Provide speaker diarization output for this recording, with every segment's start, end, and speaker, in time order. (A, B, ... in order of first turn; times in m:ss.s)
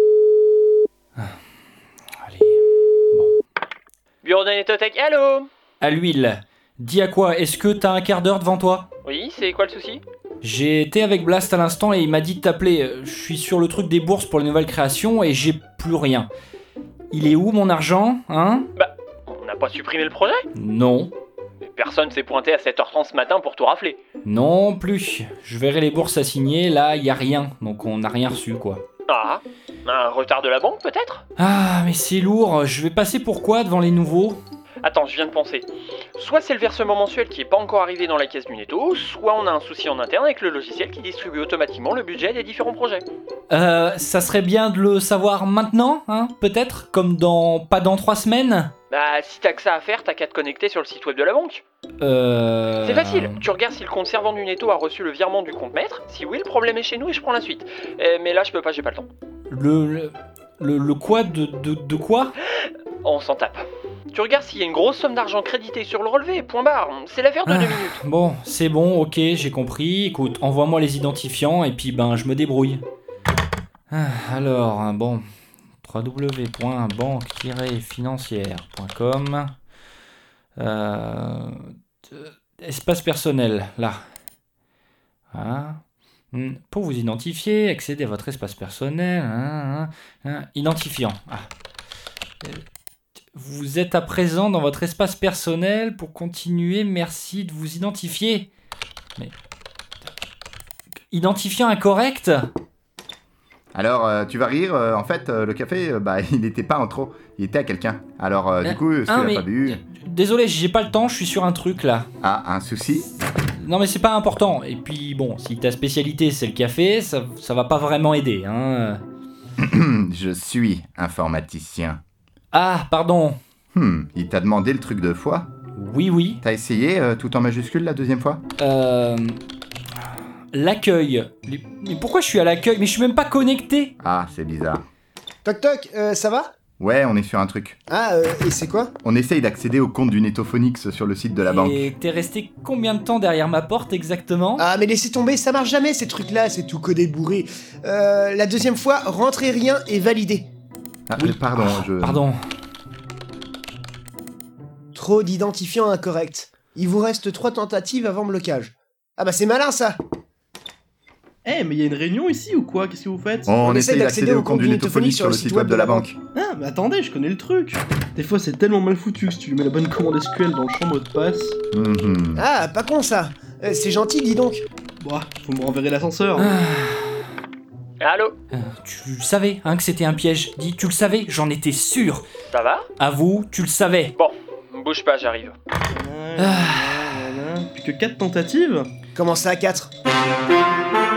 0:02.2-0:03.3 A
0:04.2-0:05.5 B
0:05.8-0:08.8 A
0:09.0-0:10.0 B
0:10.4-0:16.3 A
0:17.1-0:18.7 A
0:18.8-0:20.4 B
0:20.5-0:21.1 A
0:21.6-0:24.0 B
0:24.2-0:28.8 A
0:29.1-0:31.2 B
0:31.4-0:34.4 A
0:34.8-0:43.0 B
0:43.5-0:48.7 A
0:48.9-0:51.6 B
0:52.0-0:53.4 A
0:52.8-0:59.1 B
0:59.5-1:02.3 A
1:03.0-1:08.0 B
1:07.5-1:12.8 A
1:13.9-1:15.2 A
1:15.8-1:19.5 A
1:20.6-1:24.0 A
1:25.3-1:25.8 A
1:26.3-1:31.5 A
1:33.3-1:38.5 A
1:41.1-1:42.4 A
1:43.7-1:49.8 C
1:48.6-1:52.1 A
1:52.2-1:53.1 C
1:53.6-1:59.0 A
1:59.6-2:02.0 C
2:02.5-2:03.4 A
2:03.7-2:05.5 C
2:05.8-2:06.4 A
2:06.4-2:08.4 C
2:08.6-2:09.4 A
2:10.5-2:13.9 A
2:14.0-2:14.8 C
2:15.4-2:16.5 D
2:16.8-2:17.8 C
2:17.9-2:18.9 D
2:19.0-2:21.9 C
2:21.4-2:24.6 A
2:24.6-2:30.4 D
2:31.1-2:32.2 C
2:31.2-2:32.4 A
2:34.9-2:40.0 D
2:41.4-2:43.6 E
2:43.5-2:46.2 C
2:43.6-2:46.1 D
2:46.3-2:51.6 E
2:51.7-2:52.4 C
2:52.4-2:54.6 D
2:55.0-2:56.5 E
2:56.4-2:57.2 A
2:58.0-2:58.3 B
2:58.5-3:02.2 A
3:02.5-3:02.9 B
3:03.0-3:04.1 A
3:04.1-3:05.5 B
3:05.9-3:08.9 E
3:06.4-3:07.3 A
3:09.1-3:09.9 D